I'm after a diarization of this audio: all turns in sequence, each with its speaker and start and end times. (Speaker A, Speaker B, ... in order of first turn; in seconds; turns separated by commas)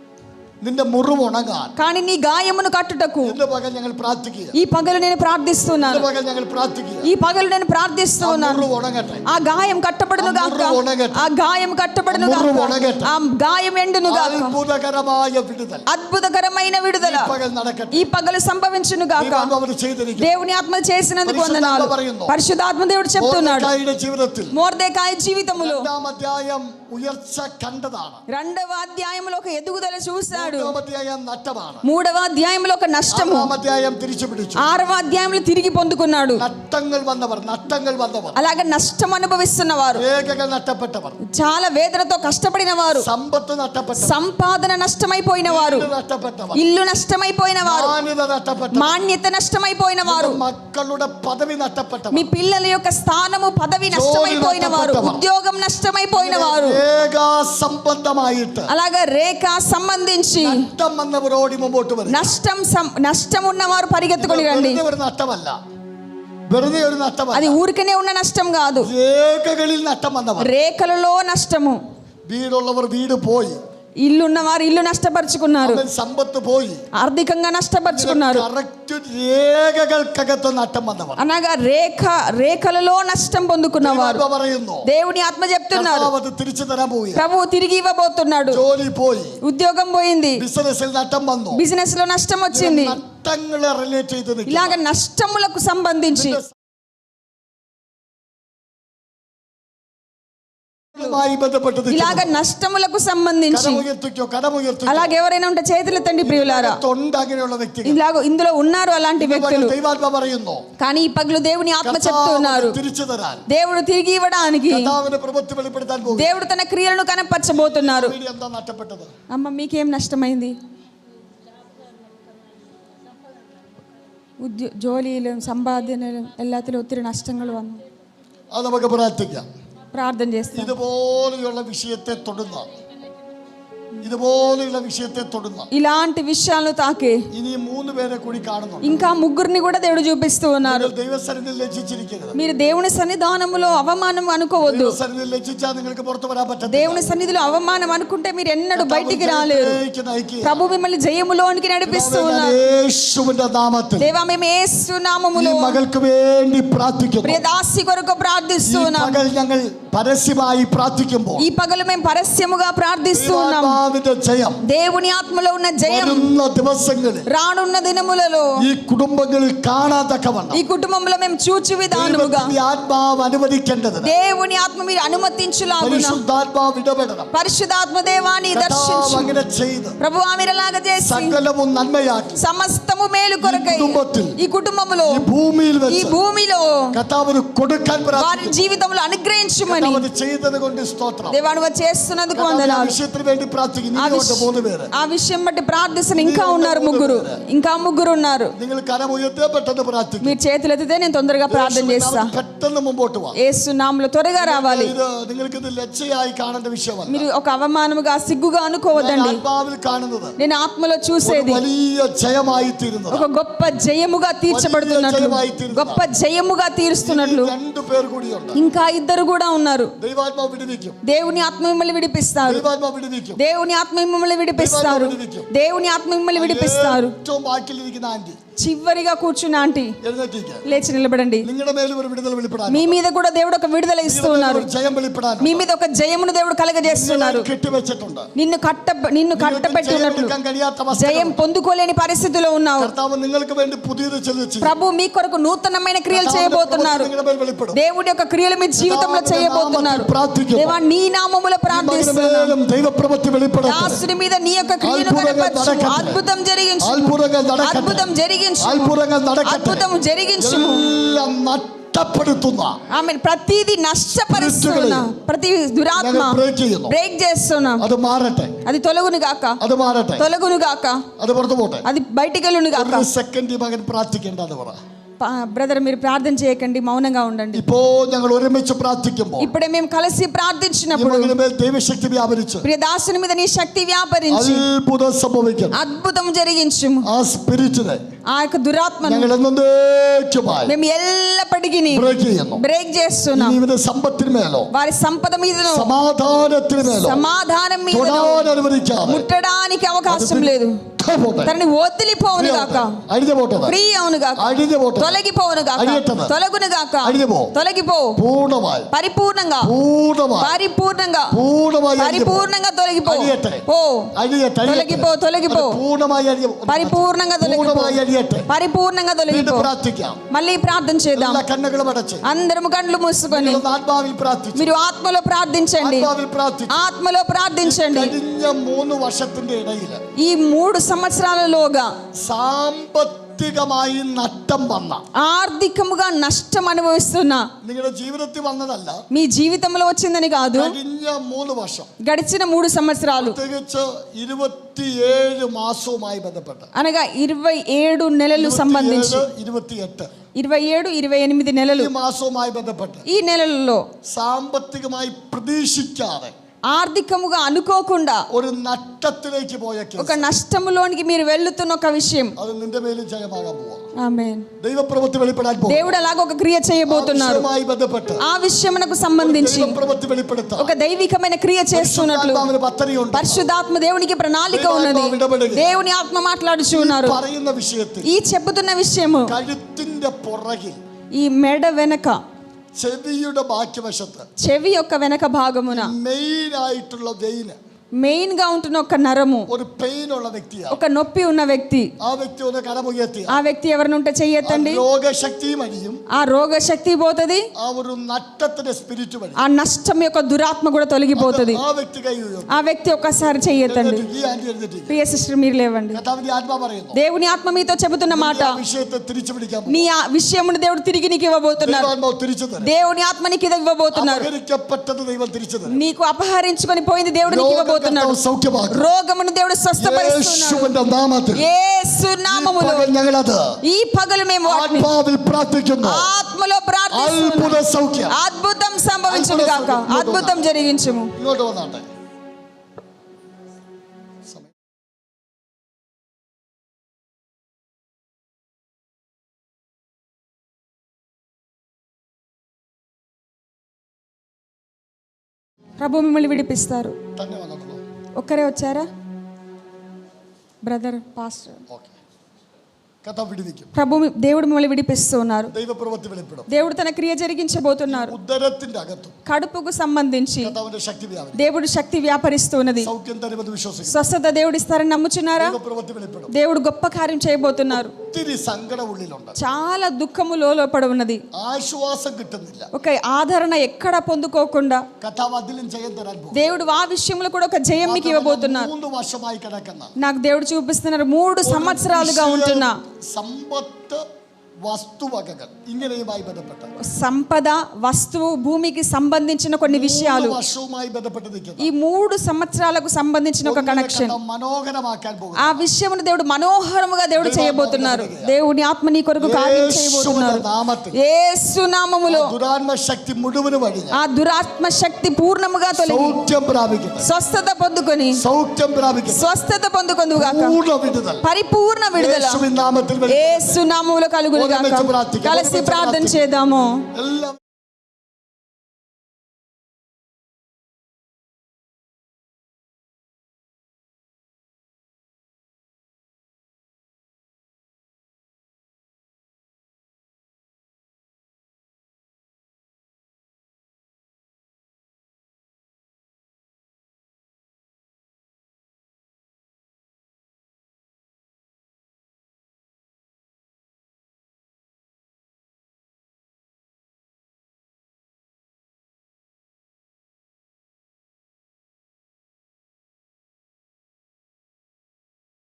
Speaker A: 0.6-1.7, Speaker B: 1.8-3.4, Speaker A: 3.2-4.5, Speaker B: 4.5-6.1, Speaker A: 5.8-7.1, Speaker B: 7.0-8.7, Speaker A: 8.2-9.3, Speaker B: 9.3-14.6, Speaker A: 10.2-11.2, Speaker A: 12.1-13.1, Speaker A: 14.1-15.8, Speaker B: 15.9-17.3, Speaker A: 17.0-18.1, Speaker B: 17.9-19.5, Speaker A: 19.2-20.3, Speaker B: 20.2-23.7, Speaker A: 21.3-22.3, Speaker A: 23.2-24.5, Speaker B: 24.5-25.9, Speaker A: 25.6-28.2, Speaker B: 28.3-30.8, Speaker A: 30.3-31.9, Speaker B: 31.8-33.5, Speaker A: 33.1-34.6, Speaker B: 34.6-36.5, Speaker A: 36.4-38.4, Speaker B: 38.4-40.0, Speaker A: 40.0-41.2, Speaker B: 41.3-43.1, Speaker A: 42.9-44.2, Speaker B: 44.0-45.9, Speaker A: 45.5-46.6, Speaker B: 46.5-48.0, Speaker A: 47.6-49.0, Speaker B: 48.7-50.4, Speaker A: 50.0-52.3, Speaker B: 52.1-56.8, Speaker A: 53.9-55.2, Speaker A: 56.2-58.7, Speaker B: 58.7-60.6, Speaker A: 60.4-62.3, Speaker B: 62.1-64.8, Speaker A: 64.2-65.6, Speaker A: 66.5-67.6, Speaker B: 67.3-68.9, Speaker A: 68.8-70.5, Speaker B: 70.4-71.8, Speaker A: 72.3-73.6, Speaker B: 74.0-75.8, Speaker A: 75.6-76.8, Speaker B: 77.0-78.5, Speaker A: 77.9-81.2, Speaker B: 81.2-84.2, Speaker A: 83.8-84.9, Speaker B: 84.8-86.1, Speaker A: 85.7-87.2, Speaker B: 87.2-88.6, Speaker A: 88.5-89.4, Speaker B: 89.4-90.4, Speaker A: 90.4-91.6, Speaker B: 91.5-93.0, Speaker A: 92.5-94.8, Speaker B: 94.5-96.4, Speaker A: 96.1-96.5, Speaker A: 100.9-102.4, Speaker B: 101.9-103.8, Speaker A: 103.5-105.2, Speaker B: 104.9-106.8, Speaker A: 106.2-108.0, Speaker B: 107.8-109.8, Speaker A: 109.2-110.6, Speaker B: 110.8-112.8, Speaker A: 111.8-113.4, Speaker B: 113.5-114.9, Speaker A: 114.7-116.3, Speaker B: 116.1-118.2, Speaker A: 117.5-119.1, Speaker B: 119.3-120.6, Speaker B: 124.4-127.8, Speaker A: 128.5-129.5, Speaker B: 129.9-130.7, Speaker A: 130.6-132.7, Speaker A: 134.0-135.7, Speaker B: 135.7-137.2, Speaker A: 137.3-139.1, Speaker B: 138.8-140.9, Speaker A: 140.6-142.4, Speaker B: 142.3-145.0, Speaker A: 144.7-147.1, Speaker B: 146.7-149.8, Speaker A: 148.8-150.6, Speaker B: 150.4-152.6, Speaker A: 151.9-154.1, Speaker B: 154.0-155.8, Speaker A: 155.3-157.4, Speaker B: 157.2-159.2, Speaker A: 158.7-161.4, Speaker B: 161.4-163.8, Speaker A: 163.1-164.6, Speaker B: 164.7-166.3, Speaker A: 165.8-167.3, Speaker B: 167.3-168.5, Speaker A: 168.6-170.6, Speaker B: 170.5-172.5, Speaker A: 171.9-174.1, Speaker B: 174.0-176.2, Speaker A: 175.8-177.3, Speaker B: 177.3-179.3, Speaker A: 178.5-180.0, Speaker B: 180.0-181.4, Speaker A: 181.0-182.4, Speaker B: 182.4-185.2, Speaker A: 183.4-184.4, Speaker A: 185.1-186.2, Speaker B: 185.9-186.9, Speaker A: 186.9-188.6, Speaker B: 188.2-190.1, Speaker A: 189.7-191.4, Speaker B: 191.3-193.0, Speaker A: 192.3-194.9, Speaker B: 194.0-198.5, Speaker A: 196.1-197.4, Speaker A: 198.6-200.4, Speaker B: 200.2-202.3, Speaker A: 201.5-203.4, Speaker B: 203.4-204.9, Speaker A: 204.4-207.3, Speaker B: 207.1-209.4, Speaker A: 208.9-210.3, Speaker B: 210.4-211.6, Speaker A: 211.2-213.2, Speaker B: 213.1-217.5, Speaker A: 214.5-216.0, Speaker A: 217.0-218.6, Speaker B: 218.6-219.9, Speaker A: 220.0-221.0, Speaker B: 221.0-222.6, Speaker A: 222.5-223.4, Speaker B: 223.4-227.1, Speaker A: 224.6-225.5, Speaker A: 226.4-228.4, Speaker B: 228.6-229.9, Speaker A: 230.0-230.6, Speaker B: 230.7-231.5, Speaker A: 231.4-233.0, Speaker B: 232.7-234.7, Speaker A: 234.1-235.7, Speaker B: 235.4-237.5, Speaker A: 236.8-238.3, Speaker B: 238.4-240.3, Speaker A: 239.3-241.4, Speaker B: 240.9-242.9, Speaker A: 242.8-244.7, Speaker B: 244.6-247.1, Speaker A: 246.1-247.8, Speaker B: 247.7-252.6, Speaker A: 248.8-250.8, Speaker A: 251.7-254.0, Speaker B: 253.7-260.9, Speaker A: 254.8-256.2, Speaker A: 256.8-258.1, Speaker A: 258.6-259.9, Speaker A: 260.4-262.8, Speaker B: 262.9-267.9, Speaker A: 264.3-265.1, Speaker A: 266.0-266.9, Speaker A: 267.8-268.6, Speaker B: 268.6-269.6, Speaker A: 269.6-270.3, Speaker B: 270.2-271.0, Speaker A: 271.2-271.9, Speaker B: 271.9-273.1, Speaker A: 272.7-274.8, Speaker B: 275.2-277.6, Speaker A: 277.5-279.5, Speaker B: 279.4-281.3, Speaker A: 280.9-282.7, Speaker B: 282.6-284.6, Speaker A: 284.3-285.8, Speaker B: 285.7-287.1, Speaker A: 287.1-288.0, Speaker B: 288.3-289.3, Speaker A: 289.0-290.7, Speaker B: 290.7-293.6, Speaker A: 291.9-292.6, Speaker A: 293.4-294.7, Speaker B: 294.7-295.9, Speaker A: 295.7-297.2, Speaker B: 296.8-298.5, Speaker A: 297.9-299.3, Speaker B: 299.1-300.8, Speaker A: 300.1-301.5, Speaker B: 301.4-303.0, Speaker A: 302.4-303.8, Speaker B: 303.7-304.4, Speaker A: 304.4-305.2, Speaker B: 305.0-308.2, Speaker A: 305.8-306.3, Speaker A: 307.0-307.5, Speaker A: 308.2-308.9, Speaker B: 308.9-309.7, Speaker A: 309.6-310.6, Speaker B: 310.4-311.3, Speaker A: 311.3-312.5, Speaker B: 312.0-314.1, Speaker A: 313.0-313.6, Speaker A: 314.2-318.5, Speaker B: 314.6-315.8, Speaker B: 316.7-319.7, Speaker A: 319.3-320.2, Speaker B: 320.3-321.4, Speaker A: 321.1-322.2, Speaker B: 322.2-323.6, Speaker A: 323.3-324.7, Speaker B: 324.6-326.1, Speaker A: 325.8-326.8, Speaker B: 326.7-328.1, Speaker A: 327.6-330.0, Speaker B: 330.2-331.9, Speaker A: 332.2-335.0, Speaker B: 335.2-337.5, Speaker A: 337.6-339.0, Speaker B: 339.1-340.7, Speaker A: 340.5-341.9, Speaker B: 342.0-343.4, Speaker A: 343.2-346.7, Speaker B: 346.8-349.3, Speaker A: 348.4-350.1, Speaker B: 350.4-351.9, Speaker A: 351.7-353.0, Speaker B: 353.1-353.9, Speaker A: 354.1-356.3, Speaker B: 356.7-358.2, Speaker A: 358.3-360.4, Speaker B: 360.0-362.4, Speaker A: 362.4-363.8, Speaker B: 364.0-364.5, Speaker A: 364.6-365.9, Speaker B: 365.7-367.5, Speaker A: 366.9-368.2, Speaker B: 368.2-369.8, Speaker A: 369.2-370.7, Speaker B: 370.6-372.5, Speaker A: 371.7-373.5, Speaker B: 373.1-377.2, Speaker A: 374.5-375.8, Speaker A: 376.7-378.1, Speaker B: 378.0-379.4, Speaker A: 379.3-380.8, Speaker B: 381.1-382.2, Speaker A: 382.8-384.3, Speaker B: 384.4-385.9, Speaker A: 385.7-387.6, Speaker B: 388.0-389.5, Speaker A: 389.5-390.8, Speaker B: 390.7-391.9, Speaker A: 392.0-393.4, Speaker B: 393.3-394.8, Speaker A: 394.4-396.0, Speaker B: 396.1-397.5, Speaker A: 397.6-399.4, Speaker B: 399.4-401.6, Speaker A: 401.1-402.5, Speaker B: 402.5-404.1, Speaker A: 403.7-405.0, Speaker B: 404.9-406.0, Speaker A: 405.9-407.0, Speaker B: 406.9-408.6, Speaker A: 408.1-409.9, Speaker B: 409.7-411.9, Speaker A: 411.6-412.7, Speaker B: 412.6-414.3, Speaker A: 413.9-415.8, Speaker B: 415.7-418.2, Speaker A: 417.3-418.8, Speaker B: 418.7-420.7, Speaker A: 419.8-421.4, Speaker B: 421.4-422.9, Speaker A: 422.3-423.4, Speaker B: 423.6-424.9, Speaker A: 424.5-426.1, Speaker B: 425.8-431.1, Speaker A: 426.9-428.1, Speaker A: 429.1-430.5, Speaker A: 431.2-431.9, Speaker B: 445.8-447.0, Speaker A: 447.2-447.8, Speaker B: 448.2-448.9, Speaker B: 450.6-451.6, Speaker A: 453.0-453.7, Speaker B: 453.7-455.5, Speaker A: 455.5-456.5, Speaker B: 456.5-458.1, Speaker A: 457.9-459.2, Speaker B: 459.3-460.5, Speaker A: 460.4-461.4, Speaker B: 461.4-462.9, Speaker A: 462.8-464.1, Speaker B: 463.9-465.6, Speaker A: 465.4-466.3, Speaker B: 466.3-467.9, Speaker A: 467.7-469.4, Speaker B: 469.4-471.2, Speaker A: 471.3-472.7, Speaker B: 472.7-474.9, Speaker A: 475.0-476.4, Speaker B: 476.3-478.7, Speaker A: 477.8-479.9, Speaker B: 480.0-482.8, Speaker A: 481.4-484.0, Speaker A: 484.6-486.7, Speaker B: 486.8-490.4, Speaker A: 489.7-491.7, Speaker B: 491.6-494.2, Speaker A: 493.4-495.7, Speaker B: 495.4-500.4, Speaker A: 497.2-498.4, Speaker A: 499.2-501.0, Speaker B: 500.9-502.3, Speaker A: 502.1-504.0, Speaker B: 503.9-506.2, Speaker A: 505.7-507.1, Speaker B: 507.0-508.2, Speaker A: 508.1-509.3, Speaker B: 509.1-510.6, Speaker A: 510.1-511.2, Speaker B: 511.2-512.4, Speaker A: 511.9-513.6, Speaker B: 513.1-516.8, Speaker A: 514.4-516.2, Speaker A: 516.9-517.4